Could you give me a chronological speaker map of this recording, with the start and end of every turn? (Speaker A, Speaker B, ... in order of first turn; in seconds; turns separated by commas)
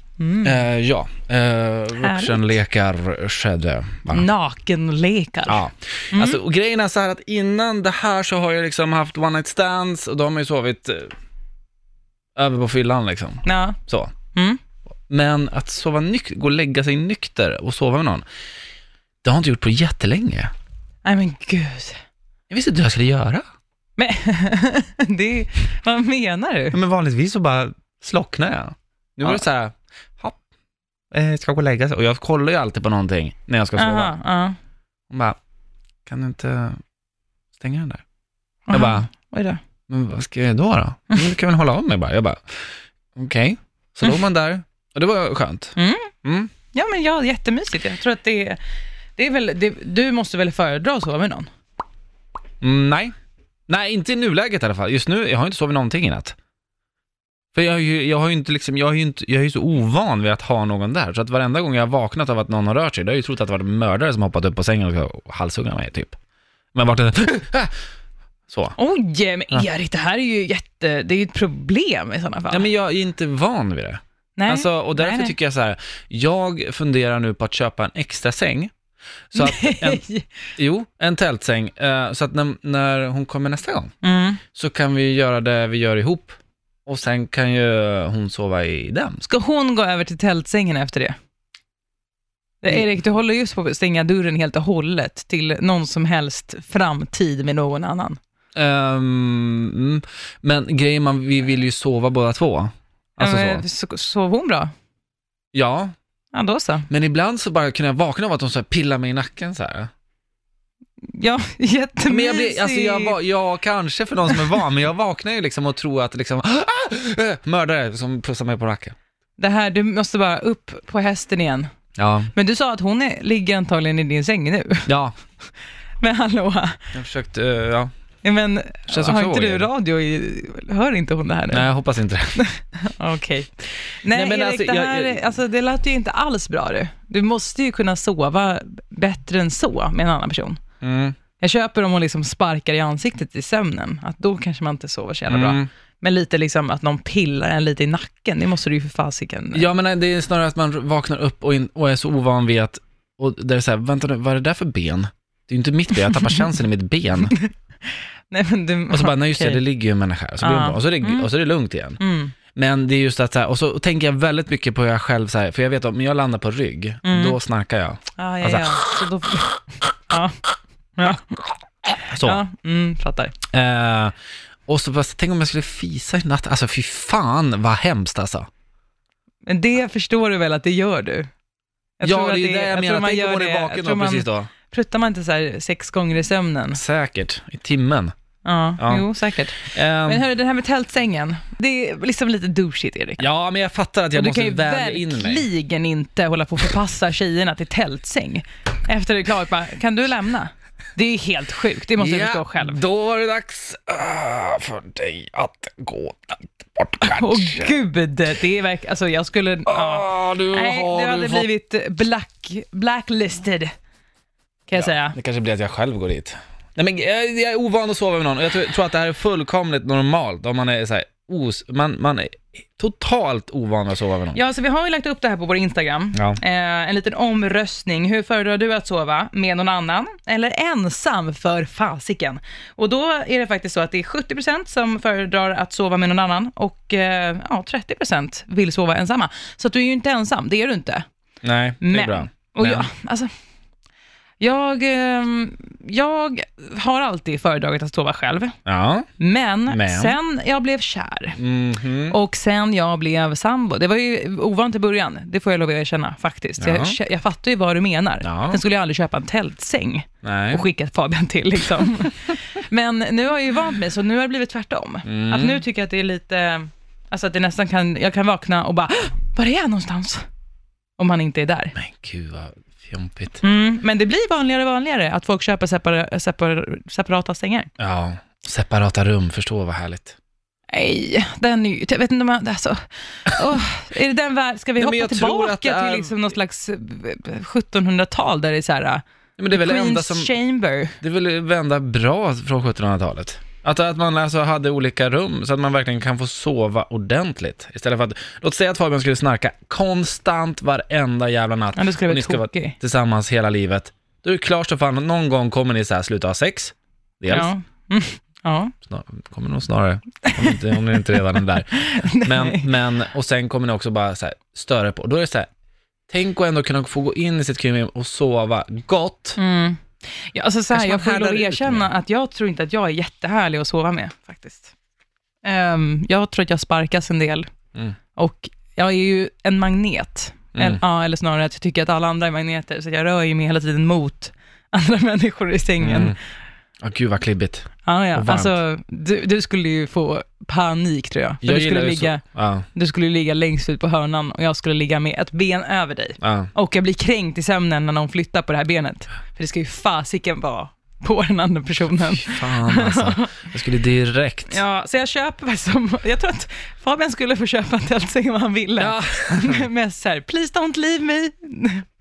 Speaker A: 0.2-0.7, Speaker B: 0.4-4.3, Speaker A: 1.9-2.6, Speaker A: 4.1-6.4, Speaker B: 5.5-11.1, Speaker B: 12.3-14.1, Speaker A: 13.4-13.8, Speaker B: 15.1-18.2, Speaker B: 19.2-20.5, Speaker A: 21.0-22.0, Speaker B: 22.5-23.4, Speaker A: 24.0-26.8, Speaker B: 26.7-30.4, Speaker B: 31.1-34.1, Speaker A: 33.8-34.6, Speaker B: 35.1-35.4, Speaker B: 36.0-36.8, Speaker B: 37.6-38.0, Speaker A: 38.7-39.6, Speaker B: 38.7-39.1, Speaker B: 39.9-42.4, Speaker B: 43.1-46.5, Speaker A: 45.8-46.1, Speaker A: 46.7-48.6, Speaker A: 49.2-51.5, Speaker B: 52.6-53.1, Speaker B: 53.7-56.3, Speaker B: 57.5-66.2, Speaker B: 66.7-67.7, Speaker B: 68.5-68.8, Speaker A: 68.8-72.7, Speaker B: 72.5-78.7, Speaker A: 74.4-75.3, Speaker B: 79.3-80.0, Speaker A: 79.3-80.2, Speaker B: 80.6-83.9, Speaker A: 84.0-84.4, Speaker B: 84.5-89.2, Speaker A: 89.2-91.1, Speaker A: 92.6-98.2, Speaker B: 98.5-103.6, Speaker A: 103.2-104.7, Speaker B: 105.5-105.9, Speaker A: 106.3-106.9, Speaker B: 106.9-109.9, Speaker A: 111.0-113.1, Speaker B: 112.1-119.0, Speaker A: 119.4-121.7, Speaker B: 122.0-122.3, Speaker A: 122.3-124.9, Speaker B: 124.9-125.1, Speaker A: 126.0-126.8, Speaker B: 126.9-127.9, Speaker A: 128.2-131.6, Speaker B: 128.9-129.7, Speaker B: 131.5-132.4, Speaker A: 132.3-140.6, Speaker B: 134.1-135.3, Speaker B: 140.8-141.2, Speaker A: 141.4-149.7, Speaker B: 145.3-145.7, Speaker B: 149.5-157.4, Speaker A: 157.2-159.6, Speaker B: 158.9-162.0, Speaker A: 160.4-161.3, Speaker A: 162.0-162.3, Speaker B: 162.5-168.9, Speaker A: 167.0-167.4, Speaker A: 168.2-170.3, Speaker A: 171.0-171.4, Speaker B: 171.9-172.4, Speaker A: 172.2-173.3, Speaker B: 173.5-174.1, Speaker B: 174.7-178.5, Speaker A: 179.4-181.3, Speaker A: 182.0-186.8, Speaker B: 182.0-184.5, Speaker B: 186.7-188.1, Speaker A: 188.4-193.2, Speaker B: 188.8-189.1, Speaker B: 189.6-190.2, Speaker B: 193.2-195.5, Speaker A: 194.1-202.8, Speaker B: 202.0-207.7, Speaker A: 207.0-213.7, Speaker B: 209.7-211.5, Speaker A: 214.7-215.2, Speaker B: 214.7-224.4, Speaker A: 224.3-241.0, Speaker B: 226.1-226.4, Speaker B: 241.4-242.9, Speaker A: 241.8-243.3, Speaker A: 244.4-248.5, Speaker B: 248.7-249.1, Speaker A: 249.2-251.4, Speaker B: 249.7-250.2, Speaker B: 251.4-252.2, Speaker A: 252.1-270.2, Speaker B: 256.6-257.0, Speaker B: 258.2-258.6, Speaker B: 260.2-260.6, Speaker B: 265.0-265.6, Speaker A: 271.0-271.7, Speaker B: 271.7-273.4, Speaker A: 273.4-277.7, Speaker B: 277.8-280.2, Speaker A: 280.7-291.0, Speaker B: 284.8-286.2, Speaker B: 289.4-290.3, Speaker B: 291.0-307.5, Speaker A: 301.7-302.7, Speaker A: 307.3-308.7, Speaker B: 308.8-315.5, Speaker A: 310.3-311.2, Speaker A: 311.7-312.7, Speaker B: 316.1-319.4, Speaker A: 319.4-324.7, Speaker B: 320.7-321.9, Speaker A: 325.4-327.5, Speaker A: 328.1-336.1, Speaker B: 330.5-330.8, Speaker B: 335.8-336.2, Speaker B: 336.8-338.6, Speaker A: 337.9-342.2, Speaker B: 341.4-342.7, Speaker A: 342.7-353.5, Speaker B: 346.2-346.5, Speaker B: 352.1-354.6, Speaker A: 354.5-361.8, Speaker B: 358.8-359.6